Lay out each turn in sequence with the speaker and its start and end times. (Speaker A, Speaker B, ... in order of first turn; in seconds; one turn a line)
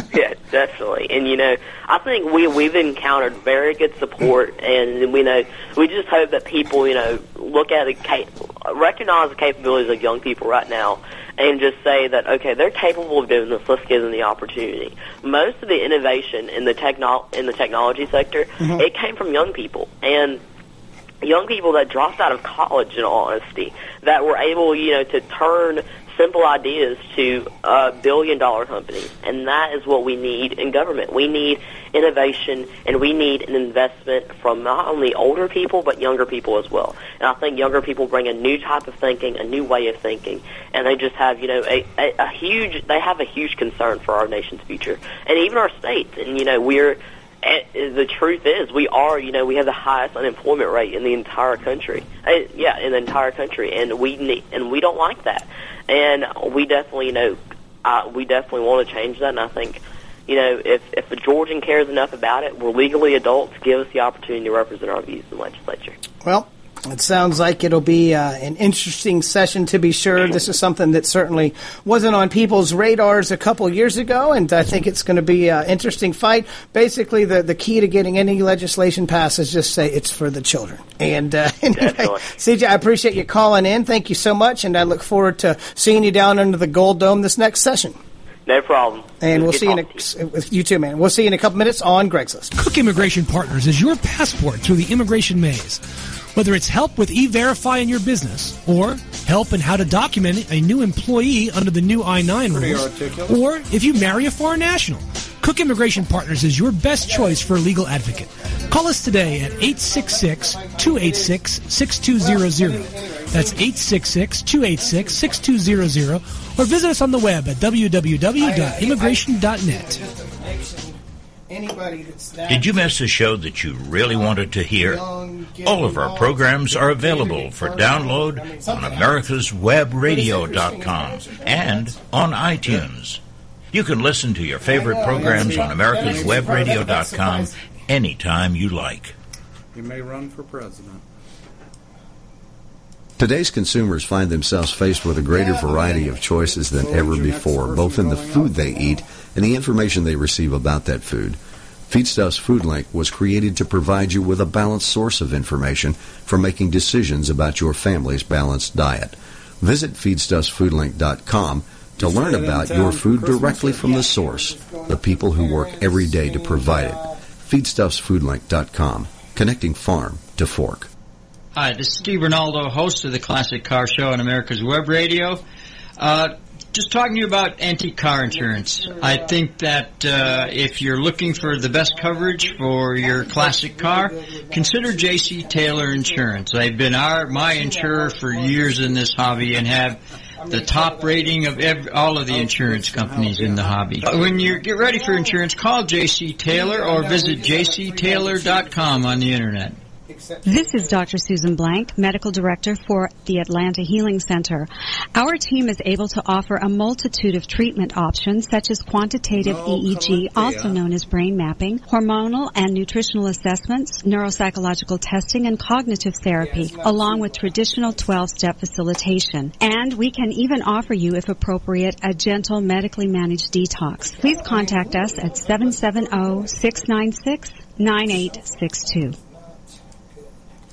Speaker A: 0.1-20.4
Speaker A: 21.2-66.0
Speaker B: 66.2-88.0
Speaker A: 81.7-82.2
Speaker A: 88.5-90.0
Speaker B: 89.2-92.5
Speaker C: 92.5-95.8
Speaker C: 96.3-120.0
Speaker D: 102.5-103.4
Speaker B: 107.0-108.0
Speaker B: 108.7-111.4
Speaker B: 112.2-113.7
Speaker B: 114.8-115.4
Speaker B: 118.4-122.9
Speaker E: 122.5-125.0
Speaker B: 124.0-129.2
Speaker E: 125.6-133.2
Speaker B: 130.0-131.9
Speaker E: 133.7-139.1
Speaker B: 134.6-137.5
Speaker D: 135.1-136.7
Speaker D: 139.7-141.0
Speaker F: 143.2-170.9
Speaker D: 145.4-149.0
Speaker D: 162.0-164.1
Speaker B: 163.4-167.2
Speaker G: 171.5-175.4
Speaker G: 176.0-199.8
Speaker B: 178.2-179.4
Speaker B: 180.1-186.5
Speaker B: 187.0-189.1
Speaker B: 190.4-191.9
Speaker D: 191.9-194.7
Speaker B: 194.7-195.4
Speaker B: 196.4-199.2
Speaker B: 200.1-201.0
Speaker H: 200.4-229.2
Speaker D: 209.3-210.8
Speaker B: 216.4-218.1
Speaker B: 224.1-226.9
Speaker B: 228.0-228.5